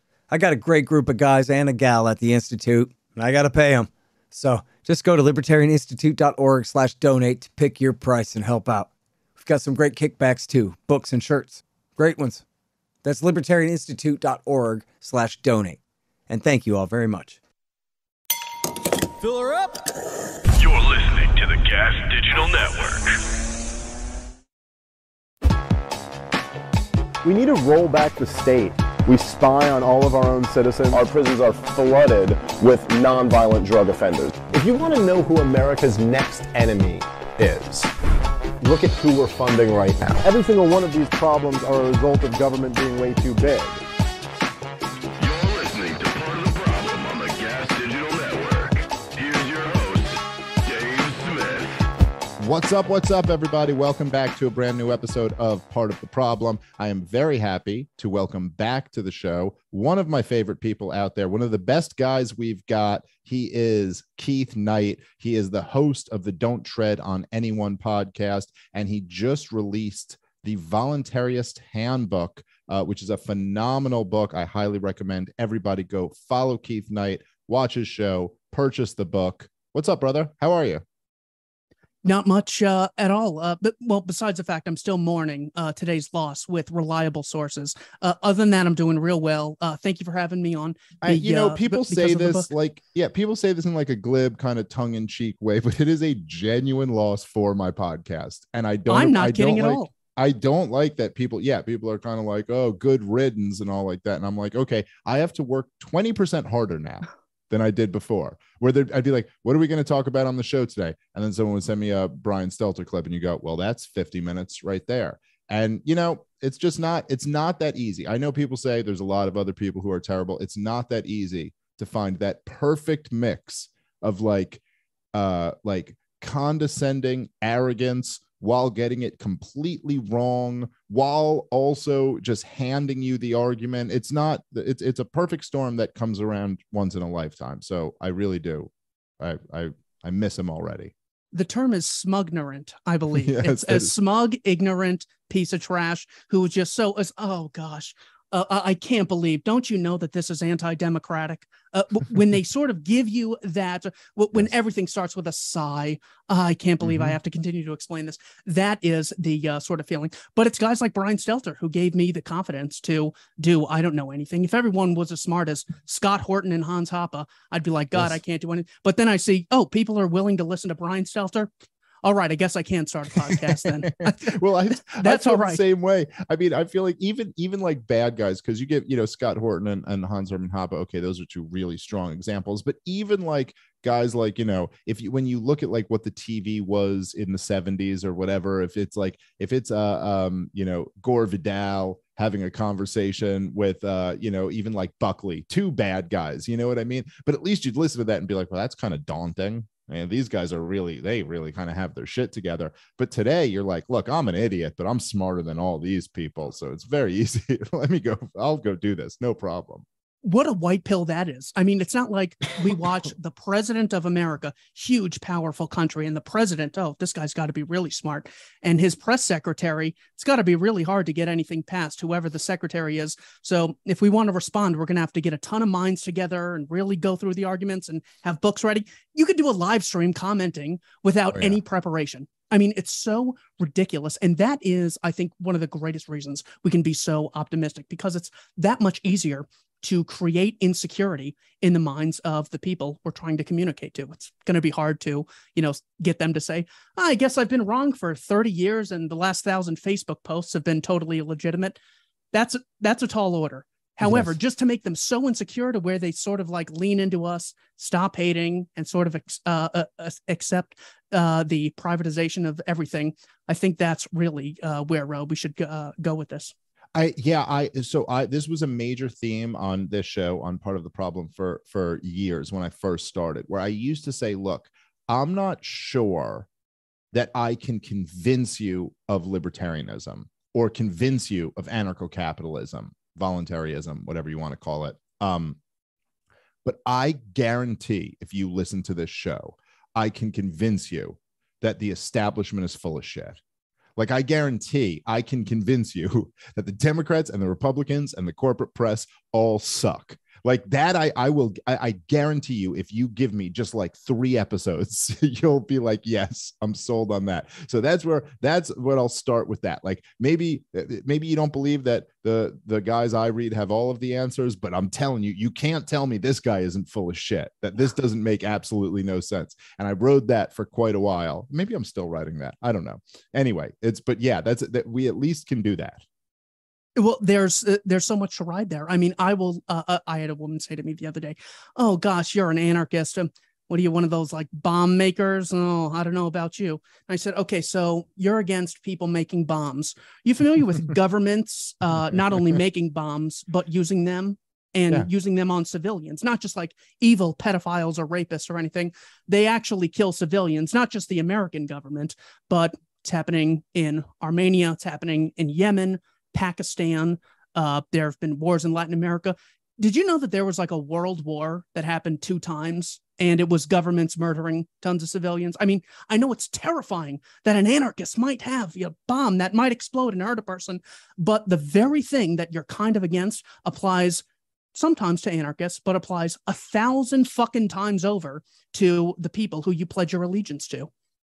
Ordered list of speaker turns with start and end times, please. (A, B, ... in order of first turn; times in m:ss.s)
0:00.3-0:12.4 A
0:13.0-0:17.4 A
0:19.2-0:19.7 A
0:20.5-0:23.2 B
0:27.2-0:37.9 C
0:38.6-0:43.8 C
0:45.2-0:51.7 B
0:52.4-1:20.8 D
1:22.0-1:32.5 E
1:31.0-2:04.6 D
1:38.9-1:39.9 E
2:05.1-2:20.9 D
2:21.3-2:51.5 E
2:23.1-2:23.9 D
2:36.8-2:37.1 D
2:52.0-2:54.4 E
2:53.8-3:29.8 D
2:54.9-2:55.6 E
3:30.2-4:11.8 E
3:51.3-3:51.6 D
4:12.3-4:26.5 E
4:14.0-4:14.3 D
4:27.0-4:36.5 D
4:37.1-4:45.6 D
4:46.6-4:53.4 D
4:54.0-5:26.0 D
5:27.0-6:20.9 E